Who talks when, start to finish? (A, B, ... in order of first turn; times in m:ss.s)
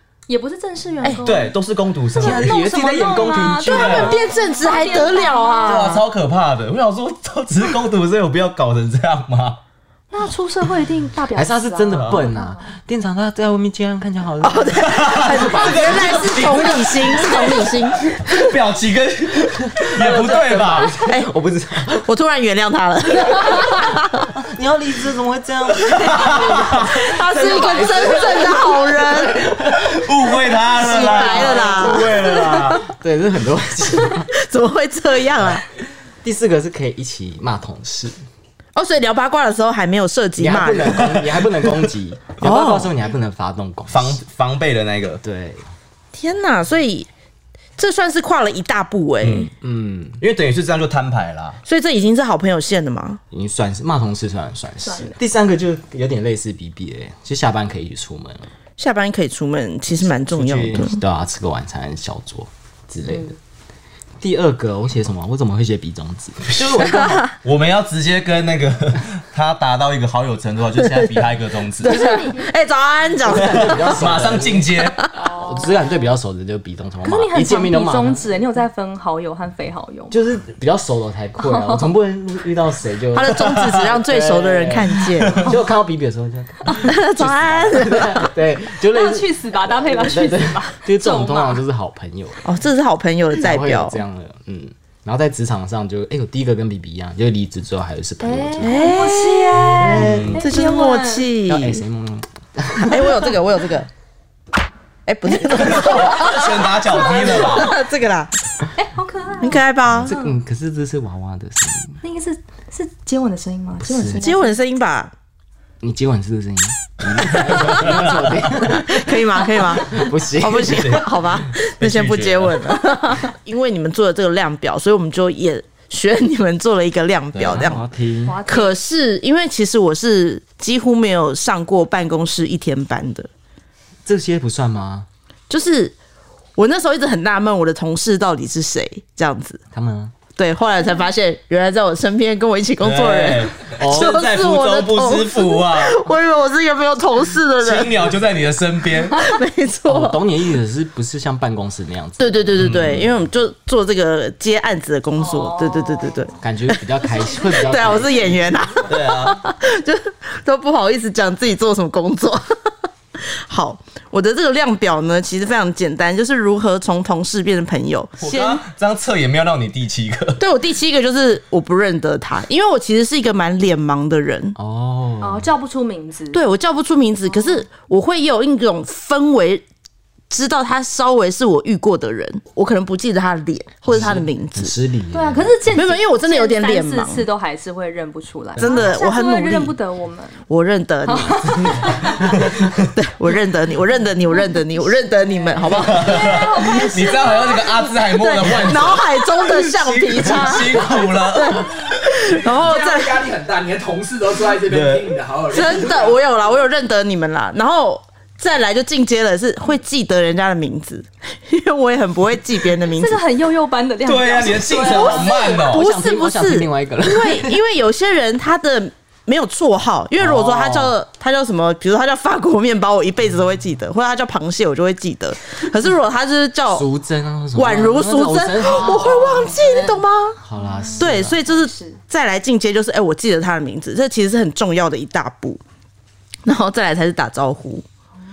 0:00.3-0:01.6 A
0:01.0-0:01.3 B
0:01.2-0:02.6 C
0:02.1-0:04.1 D
0:02.2-0:05.9 A
0:03.6-0:04.2 C
0:03.7-0:06.0 B
0:05.6-0:09.6 C
0:10.1-0:12.7 A
0:11.3-0:16.9 D
0:11.9-0:12.2 C
0:14.4-0:18.0 B
0:14.8-0:20.9 C
0:19.6-0:22.1 D
0:21.0-0:21.3 B
0:22.0-0:24.2 B
0:23.5-0:34.3 D
0:25.9-0:28.3 C
0:26.8-0:29.4 B
0:29.8-0:32.9 C
0:30.7-0:32.8 B
0:34.1-0:35.6 B
0:36.2-0:38.2 D
0:38.7-0:41.1 B
0:40.4-0:44.2 D
0:40.7-0:41.7 C
0:42.4-0:42.9 B
0:43.9-0:45.2 C
0:45.2-0:45.7 D
0:46.1-0:47.1 B
0:47.8-0:49.5 B
0:49.2-0:49.5 C
0:49.6-0:50.2 D
0:50.2-0:51.6 C
0:51.6-0:53.2 B
0:53.3-0:58.5 D
0:54.8-0:55.2 A
0:58.8-1:01.0 B
1:00.3-1:03.4 D
1:04.2-1:07.3 D
1:06.5-1:12.0 C
1:10.8-1:11.2 B
1:11.8-1:14.1 B
1:11.8-1:12.5 A
1:13.2-1:18.4 D
1:13.3-1:15.0 C
1:15.1-1:16.0 A
1:17.0-1:20.1 A
1:20.1-1:32.4 D
1:21.4-1:21.9 A
1:23.1-1:25.5 B
1:23.5-1:23.9 C
1:25.2-1:25.5 C
1:26.8-1:28.3 B
1:28.9-1:31.6 A
1:32.4-1:34.0 B
1:33.4-1:39.0 D
1:38.2-1:41.3 A
1:38.6-1:41.8 B
1:39.6-1:40.4 D
1:39.9-1:40.4 C
1:41.5-1:43.4 D
1:42.8-1:43.9 B
1:45.0-1:48.3 B
1:45.5-1:47.8 C
1:46.9-1:47.8 A
1:48.8-1:50.3 A
1:49.4-1:50.1 B
1:49.8-1:52.0 D
1:52.0-1:54.5 A
1:53.8-1:54.3 D
1:54.1-1:55.1 B
1:55.8-2:01.2 D
1:57.3-1:58.3 C
1:58.6-2:07.8 B
2:00.6-2:02.8 C
2:07.3-2:07.7 C
2:07.4-2:08.4 D
2:08.2-2:08.8 A
2:08.5-2:13.3 B
2:14.0-2:15.1 D
2:15.5-2:15.9 B
2:16.6-2:19.6 B
2:19.7-2:20.1 D
2:20.4-2:27.9 B
2:22.8-2:26.0 C
2:23.8-2:24.1 D
2:27.6-2:29.3 C
2:29.1-2:30.2 B
2:29.8-2:33.1 D
2:32.2-2:36.8 B
2:32.6-2:33.1 C
2:35.2-2:36.3 A
2:36.4-2:38.6 D
2:37.0-2:38.0 A
2:37.4-2:42.4 B
2:38.8-2:39.4 C
2:43.2-2:48.6 B
2:48.2-2:50.4 C
2:50.4-2:54.5 B
2:54.6-2:55.5 D
2:55.2-2:56.4 A
2:56.3-2:59.6 B
2:57.4-2:57.6 A
3:00.3-3:04.8 B
3:03.9-3:05.5 D
3:05.1-3:10.4 A
3:05.7-3:07.3 B
3:08.6-3:09.7 B
3:08.6-3:08.9 D
3:10.5-3:16.4 B
3:11.0-3:12.2 A
3:15.3-3:18.0 A
3:15.7-3:22.3 C
3:18.0-3:23.2 B
3:20.2-3:21.2 D
3:22.5-3:26.2 E
3:24.7-3:25.1 C
3:25.5-3:33.2 B
3:32.8-3:35.6 A
3:34.0-3:35.9 C
3:34.7-3:46.9 B
3:35.6-3:37.6 D
3:40.2-3:40.9 D
3:46.7-3:49.7 D
3:47.5-3:50.4 B
3:49.4-3:49.8 A
3:50.4-3:51.4 D
3:50.6-3:52.0 A
3:51.0-3:55.6 B
3:56.4-3:57.8 B